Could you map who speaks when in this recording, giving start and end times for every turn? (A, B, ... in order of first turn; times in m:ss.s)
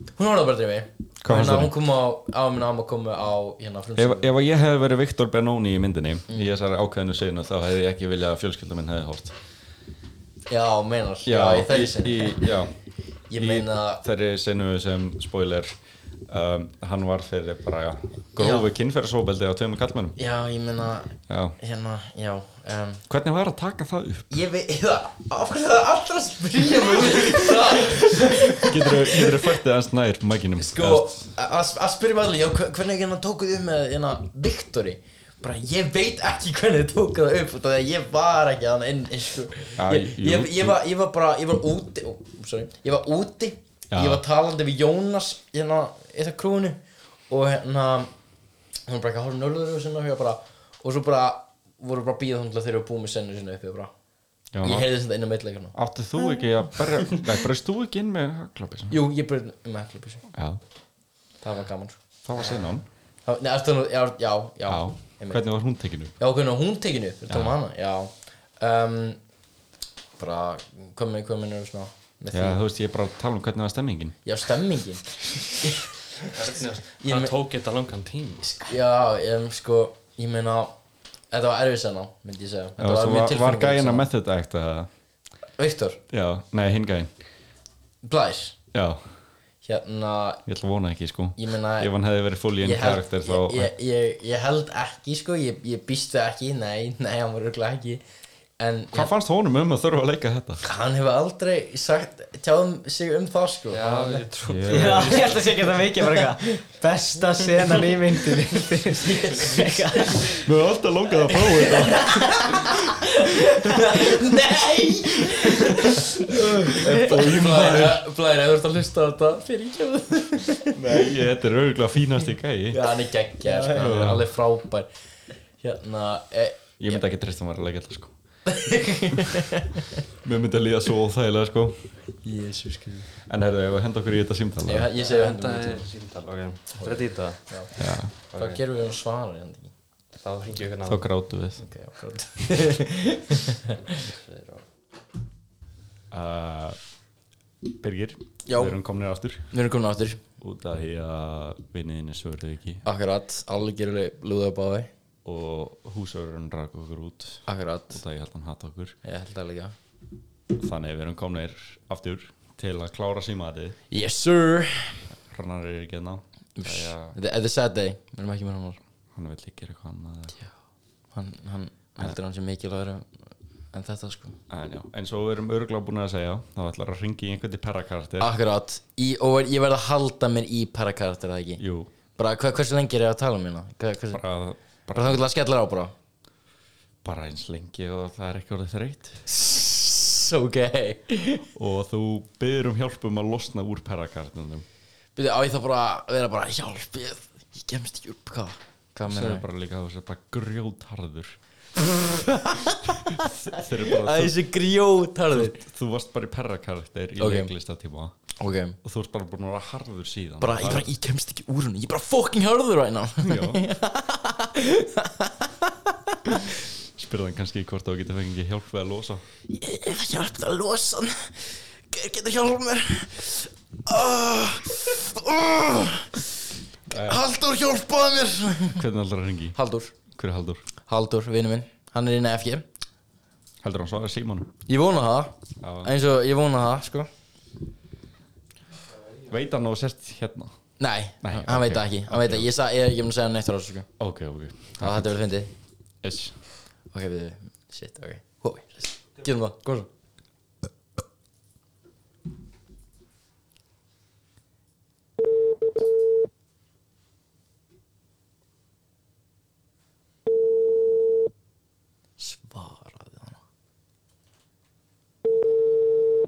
0:00.2-0:04.3 A
0:01.2-0:01.7 B
0:04.0-0:09.3 B
0:10.5-0:12.5 A
0:11.2-0:12.7 B
0:13.3-0:14.0 A
0:13.4-0:15.8 B
0:16.3-0:20.2 B
0:18.4-0:18.6 A
0:20.2-0:23.0 A
0:21.3-0:21.6 B
0:23.1-0:24.4 B
0:24.3-0:29.6 A
0:27.0-0:31.1 B
0:30.6-0:48.1 A
0:39.8-0:40.8 B
0:43.9-0:44.2 B
0:48.9-0:53.9 A
0:54.5-0:54.9 B
0:54.6-0:55.7 A
0:55.7-0:59.0 B
0:58.9-1:00.2 A
1:00.3-1:00.6 B
1:01.4-1:02.6 A
1:02.2-1:02.8 B
1:03.2-1:05.4 A
1:04.7-1:06.2 B
1:06.2-1:09.2 A
1:07.3-1:07.6 B
1:10.2-1:12.6 A
1:12.3-1:14.2 B
1:14.2-1:16.3 A
1:16.3-1:18.6 C
1:17.0-1:17.3 A
1:18.5-1:20.7 A
1:21.3-1:24.1 A
1:22.8-1:24.9 B
1:25.6-1:26.0 A
1:26.1-1:27.1 B
1:28.0-1:28.6 A
1:28.7-1:29.0 B
1:29.6-1:30.4 A
1:30.5-1:33.7 B
1:31.4-1:31.9 A
1:32.6-1:38.0 A
1:38.6-1:39.1 A
1:38.9-1:40.6 B
1:40.6-1:44.3 A
1:43.7-1:45.8 C
1:44.4-1:45.3 B
1:44.7-1:50.4 D
1:49.0-1:50.1 A
1:50.3-1:53.1 B
1:51.8-1:52.2 A
1:53.2-1:53.8 D
1:53.7-2:01.2 A
1:55.0-1:58.0 B
2:00.7-2:02.9 B
2:02.7-2:04.9 A
2:03.4-2:03.8 D
2:03.7-2:04.3 B
2:05.6-2:07.0 A
2:06.8-2:08.1 B
2:08.5-2:09.9 A
2:10.2-2:11.9 B
2:12.2-2:13.1 A
2:13.3-2:14.9 B
2:14.6-2:15.9 A
2:15.0-2:17.7 C
2:16.8-2:19.7 A
2:17.8-2:18.1 B
2:18.3-2:18.6 C
2:20.2-2:21.1 C
2:20.8-2:21.6 B
2:21.6-2:23.8 A
2:23.8-2:24.6 C
2:26.1-2:26.8 B
2:27.7-2:29.5 B
2:28.5-2:28.8 A
2:29.5-2:30.2 A
2:30.4-2:32.8 B
2:32.8-2:34.9 A
2:35.2-2:39.0 B
2:37.5-2:38.0 A
2:39.0-2:39.7 A
2:40.6-2:43.8 B
2:43.9-2:45.0 A
2:45.3-2:47.2 B
2:46.6-2:48.8 A
2:49.1-2:50.4 B
2:51.1-2:53.1 A
2:53.7-2:54.4 A
2:54.5-2:58.3 B
2:58.2-3:04.2 A
3:01.6-3:01.9 B
3:04.1-3:05.2 B
3:04.9-3:05.9 A
3:07.0-3:09.2 B
3:09.3-3:11.4 A
3:11.5-3:14.6 B
3:15.2-3:19.4 A
3:19.1-3:21.4 B
3:21.8-3:25.6 A
3:23.1-3:24.3 B
3:25.3-3:28.1 B
3:27.2-3:27.5 A
3:28.4-3:28.8 A
3:28.8-3:30.9 B
3:30.4-3:36.5 A
3:33.2-3:33.6 B
3:36.9-3:39.2 B
3:39.5-3:46.3 A
3:46.9-3:47.2 B
3:46.9-3:48.8 A
3:48.7-3:50.6 B
3:49.6-3:49.9 A
3:50.8-3:52.6 A
3:53.6-3:54.5 B
3:54.7-3:57.1 A
3:55.6-3:55.9 B
3:59.2-4:00.5 B
4:00.8-4:03.9 A
4:01.2-4:02.5 B
4:04.0-4:05.1 B
4:04.8-4:05.5 A
4:06.0-4:06.4 B
4:06.9-4:09.9 A
4:22.2-4:23.4 A